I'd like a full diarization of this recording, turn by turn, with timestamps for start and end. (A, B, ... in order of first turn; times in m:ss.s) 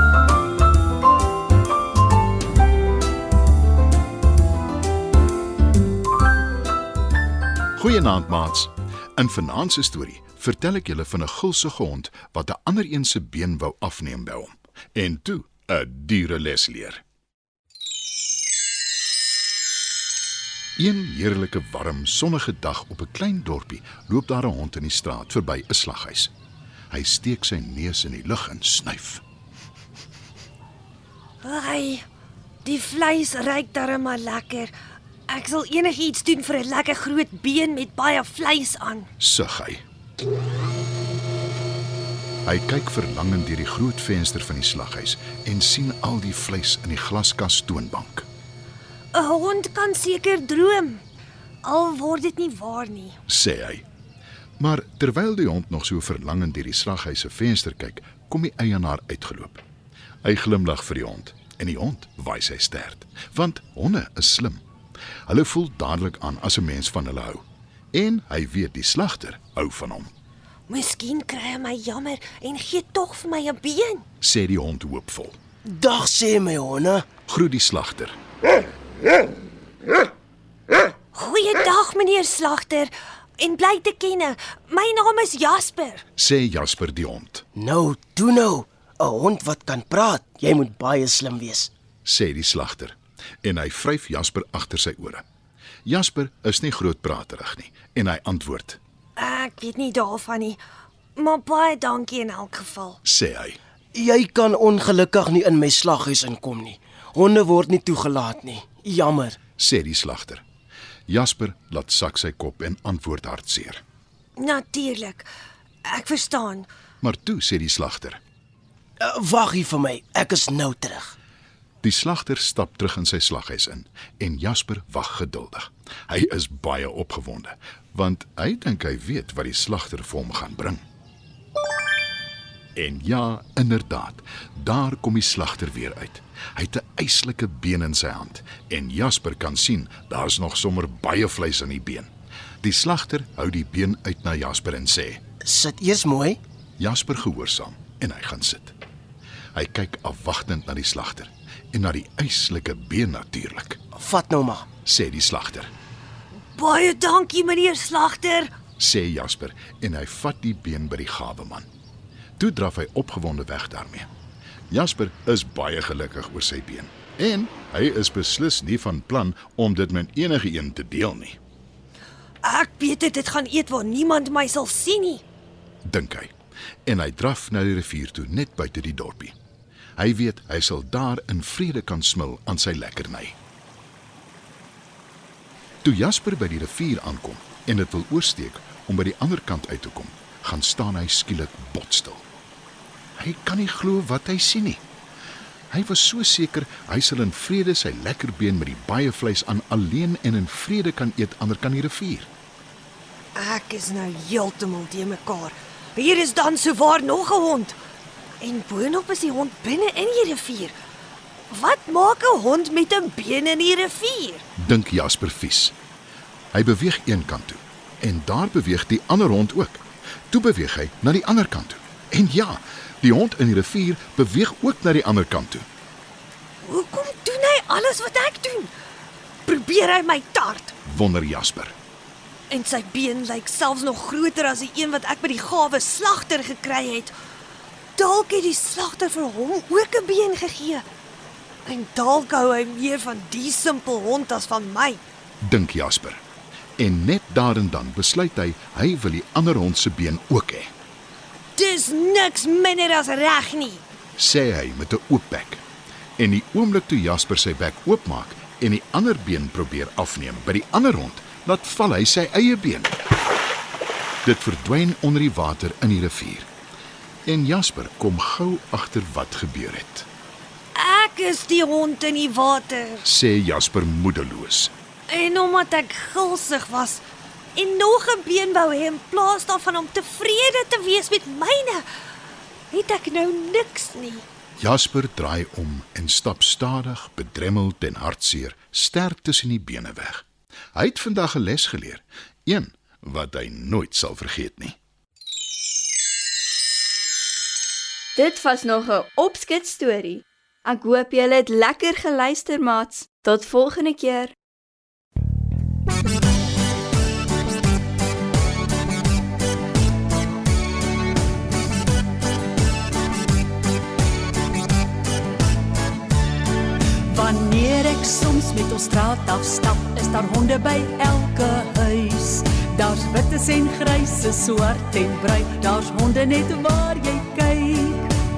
0:07.8-0:17.0 A
0:20.8-0:26.3 A
0:26.9-0:29.2 A
0:31.4-0:32.0 B
0:32.6-0:34.7 B
0:35.3-0:39.1 B
0:39.2-0:39.8 A
0:42.4-0:48.2 A
0:49.1-0:51.0 B
0:51.6-0:53.2 B
0:53.3-0:53.8 A
0:54.6-0:59.6 A
1:00.2-1:04.6 A
1:05.3-1:10.1 A
1:10.7-1:14.0 B
1:14.2-1:15.4 A
1:15.6-1:17.0 C
1:17.3-1:18.2 A
1:21.1-1:26.0 B
1:26.2-1:27.4 A
1:27.6-1:31.7 C
1:32.0-1:35.2 A
1:35.8-1:38.8 A
1:39.2-1:40.6 B
1:41.2-1:43.0 B
1:43.0-1:43.6 A
1:43.9-1:49.4 C
1:49.6-1:50.4 A
1:51.1-1:53.8 A
1:54.4-1:55.3 B
1:55.8-1:56.7 B
1:57.0-1:58.2 A
1:59.0-2:01.1 C
2:01.8-2:10.8 A
2:12.8-2:22.1 A
2:22.6-2:25.2 A
2:25.4-2:26.4 C
2:26.8-2:28.7 A
2:29.5-2:33.8 A
2:33.9-2:34.7 C
2:34.8-2:35.7 A
2:36.5-2:38.5 B
2:38.8-2:41.7 A
2:42.4-2:44.1 A
2:44.7-2:51.4 A
2:52.4-2:55.2 B
2:55.8-2:56.3 A
2:56.8-2:59.3 A
3:00.0-3:03.4 A
3:05.8-3:12.2 A
3:13.2-3:14.8 A
3:15.7-3:22.3 A
3:23.3-3:27.8 B
3:28.4-3:30.7 B
3:31.5-3:34.4 B
3:34.6-3:35.7 A
3:36.5-3:45.6 A
3:46.6-3:48.7 B
3:49.4-3:50.7 B
3:50.8-3:51.7 A
3:52.5-3:57.1 B
3:58.0-4:00.8 B
4:01.6-4:05.0 B
4:05.4-4:06.2 A
4:06.8-4:10.7 A
4:11.6-4:13.8 B
4:14.2-4:15.6 A
4:16.2-4:23.0 A
4:24.2-4:26.5 A
4:27.2-4:30.1 A
4:30.7-4:33.0 B
4:33.0-4:34.7 A
4:35.1-4:37.0 B
4:37.6-4:41.8 B
4:42.7-4:44.2 B
4:44.6-4:50.2 A
4:50.7-4:54.8 A
4:58.2-5:04.3 D
5:17.1-5:28.1 E